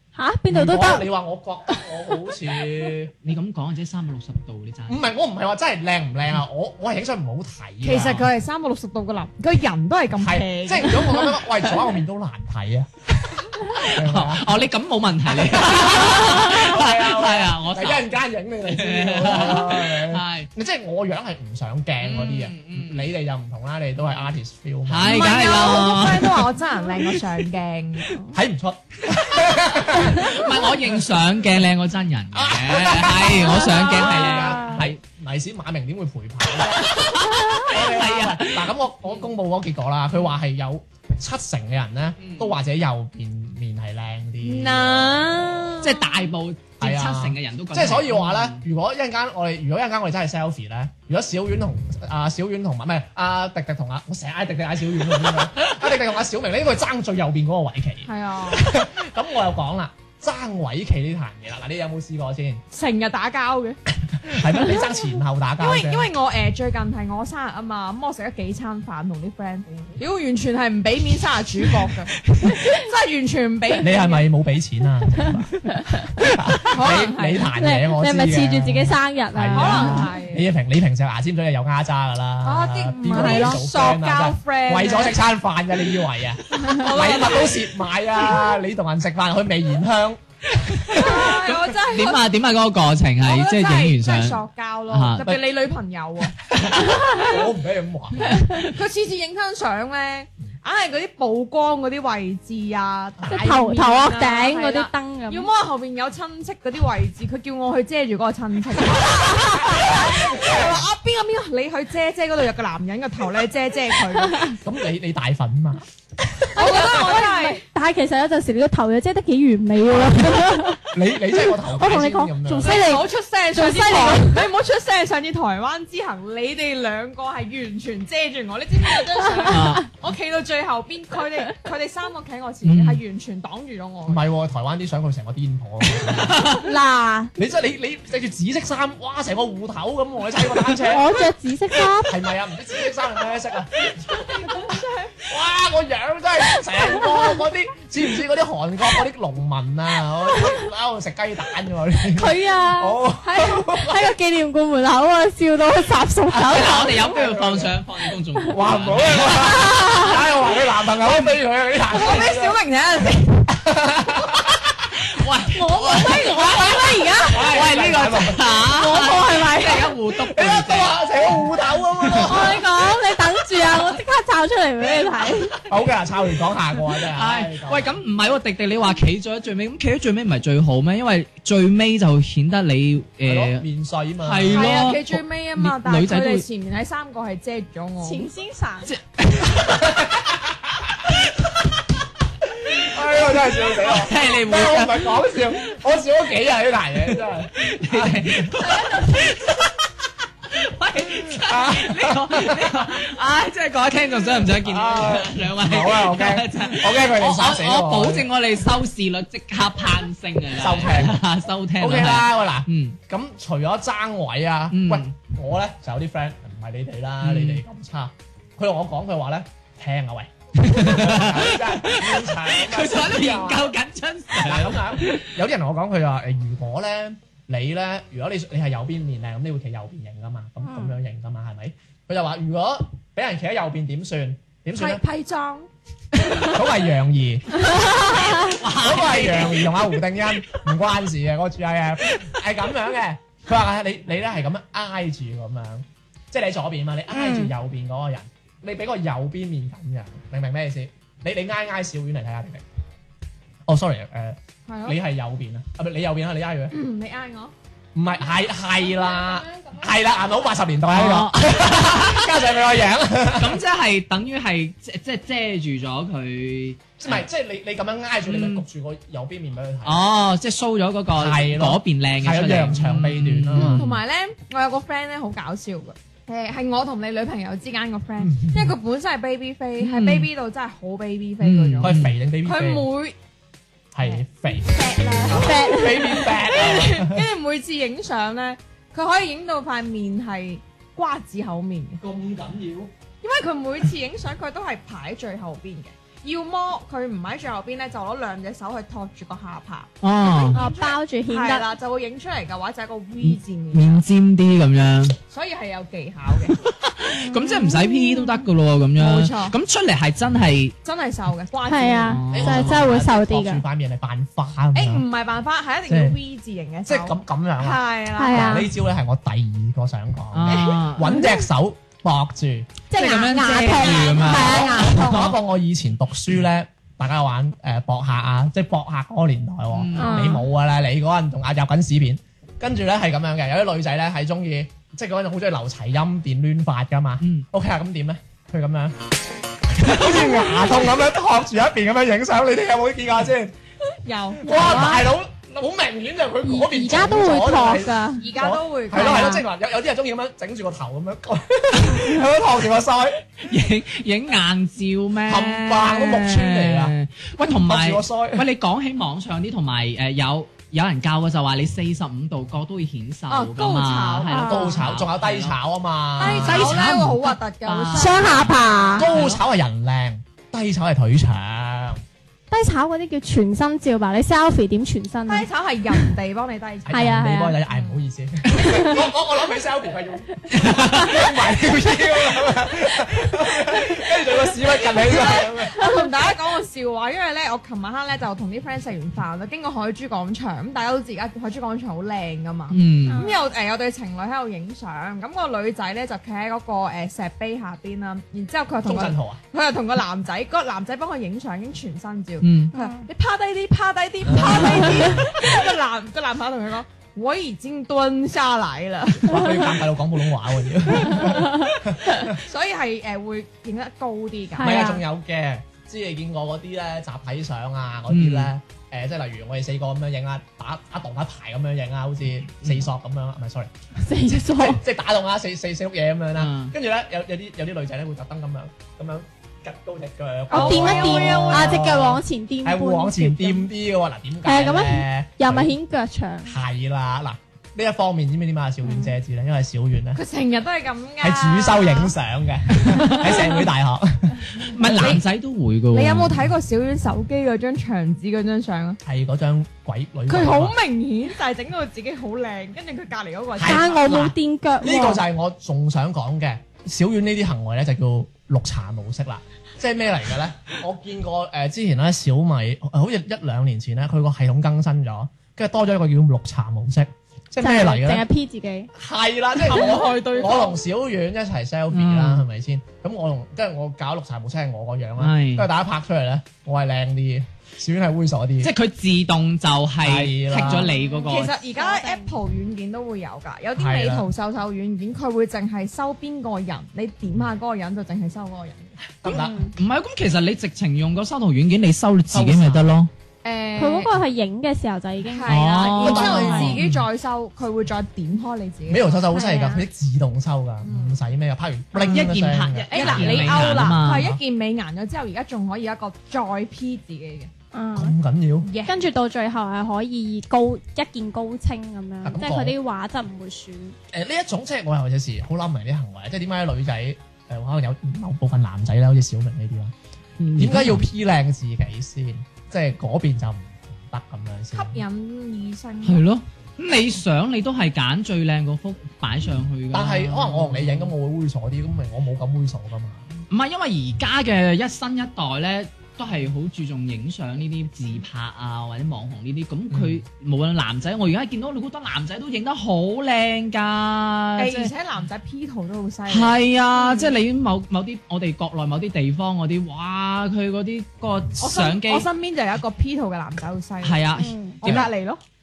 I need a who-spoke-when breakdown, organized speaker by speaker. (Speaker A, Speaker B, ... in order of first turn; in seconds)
Speaker A: 0.2-1.1, 33.4-34.8, 77.5-80.1, 83.1-83.6, 103.3-105.5, 116.5-123.0, 123.6-124.4, 136.6-137.3, 140.9-142.1, 152.1-157.2, 159.4-160.2, 165.5-167.5, 168.6-169.9, 172.1-175.5, 188.0-188.9, 230.7-230.9, 237.6-238.5, 247.1-247.5, 285.3-286.3, 300.5-301.7, 307.2-308.4, 311.6-313.6, 318.2-318.7, 321.0-321.4, 322.9-325.3, 330.0-330.4, 340.0-340.7, 344.5-345.1, 346.4-348.2, 348.9-349.4, 364.3-364.8, 367.9-369.1, 372.5-376.1, 376.9-377.6, 378.5-379.0, 393.1-393.4, 402.7-403.1, 411.2-411.7, 414.6-415.0, 424.0-424.8, 430.5-433.7, 434.4-436.5, 438.9-439.1, 453.6-455.2, 467.6-468.9, 480.7-482.3, 489.2-489.7, 493.8-496.8, 499.3-499.8, 507.7-508.2, 508.9-514.0, 554.4-554.8
Speaker B: 0.5-3.1, 4.9-8.3, 10.2-14.6, 15.4-25.8, 28.3-31.0, 32.3-37.1, 37.6-45.5, 46.8-62.6, 64.2-66.1, 73.8-90.2, 96.5-98.5, 103.2-103.6, 109.6-110.8, 114.5-116.8, 120.9-122.7, 134.1-136.5, 137.4-141.1, 142.1-154.1, 156.3-157.8, 158.5-162.6, 163.5-164.6, 167.2-168.4, 170.2-172.6, 175.7-177.9, 183.2-184.7, 189.6-190.5, 192.6-198.6, 201.1-203.0, 204.6-208.3, 210.5-211.2, 211.8-223.7, 224.4-235.0, 236.5-252.6, 253.7-256.8, 257.9-263.6, 267.0-270.0, 271.1-273.9, 278.3-278.7, 281.8-282.9, 283.9-287.2, 292.0-292.9, 312.3-315.1, 315.9-316.2, 316.9-322.7, 324.2-339.0, 339.7-343.5, 344.4-353.2, 355.3-356.9, 357.6-358.5, 364.3-366.8, 368.9-372.0, 376.9-385.8, 398.9-399.4, 404.2-405.4, 409.2-412.4, 414.6-423.7, 424.5-435.8, 436.5-440.2, 441.2-445.2, 449.0-450.8, 453.6-468.2, 468.9-478.7, 480.0-480.9, 483.8-484.3, 489.2-489.7, 492.3-492.9, 496.0-496.8, 498.9-504.4, 507.9-508.7, 512.2-512.8, 514.1-519.9, 520.6-525.0, 529.9-533.3, 539.9-540.2
Speaker C: 3.2-5.0, 13.6-18.1, 18.6-20.5, 22.0-23.1, 24.9-27.1, 29.9-35.0, 36.8-38.7, 42.2-42.5, 45.8-48.6, 90.5-95.3, 129.5-129.8, 132.6-133.0, 136.2-136.7, 156.4-159.7, 165.0-166.8, 167.3-171.1, 171.9-172.7, 173.6-174.0, 177.1-183.7, 184.2-186.4, 188.9-190.0, 193.7-195.2, 197.1-199.8, 200.5-213.0, 214.7-215.1, 217.2-217.6, 220.6-225.3, 238.4-239.9, 260.9-262.3, 263.3-267.2, 268.2-268.6, 269.9-273.9, 279.8-280.3, 281.4-282.1, 300.0-300.6, 303.2-305.2, 306.5-310.8, 312.1-312.9, 320.3-321.2, 322.9-325.3, 329.7-330.4, 337.2-337.5, 353.5-365.6, 366.2-369.4, 380.5-381.2, 392.7-393.2, 402.4-402.7, 418.1-418.5, 426.4-426.7, 442.9-443.3, 444.5-446.5, 471.9-472.5, 475.2-475.7, 478.6-481.6, 489.7-493.1, 495.5-497.0, 501.9-504.3, 520.4-521.0, 526.0-531.1, 533.5-544.9, 546.3-552.3, 554.0-555.0
Speaker D: 7.8-11.4, 25.0-28.3, 44.4-46.1, 58.1-58.7, 62.7-63.8, 65.6-74.3, 76.7-77.5, 79.5-80.5, 82.4-85.2, 86.5-87.6, 90.8-92.2, 93.2-96.3, 98.5-114.6, 116.5-117.6, 122.6-134.2, 161.9-163.5, 165.8-167.3, 184.5-188.3, 234.8-235.7, 254.7-255.0, 256.7-257.5, 273.6-281.9, 282.4-283.2, 284.0-292.0, 293.2-304.0, 305.3-306.6, 309.0-309.6, 310.8-312.2, 314.8-318.7, 320.5-320.8, 344.0-344.9, 348.2-349.4, 363.3-364.4, 366.2-368.9, 375.3-377.1, 384.9-409.6, 412.3-414.9, 430.5-431.9, 440.1-442.1, 444.8-445.2, 445.9-449.0, 450.3-454.0, 469.7-470.8, 481.2-488.9, 493.4-494.1, 495.2-499.2, 500.8-501.2, 502.9-507.5, 508.6-509.1, 524.7-526.3, 544.6-546.6, 551.6-554.2, 554.8-555.4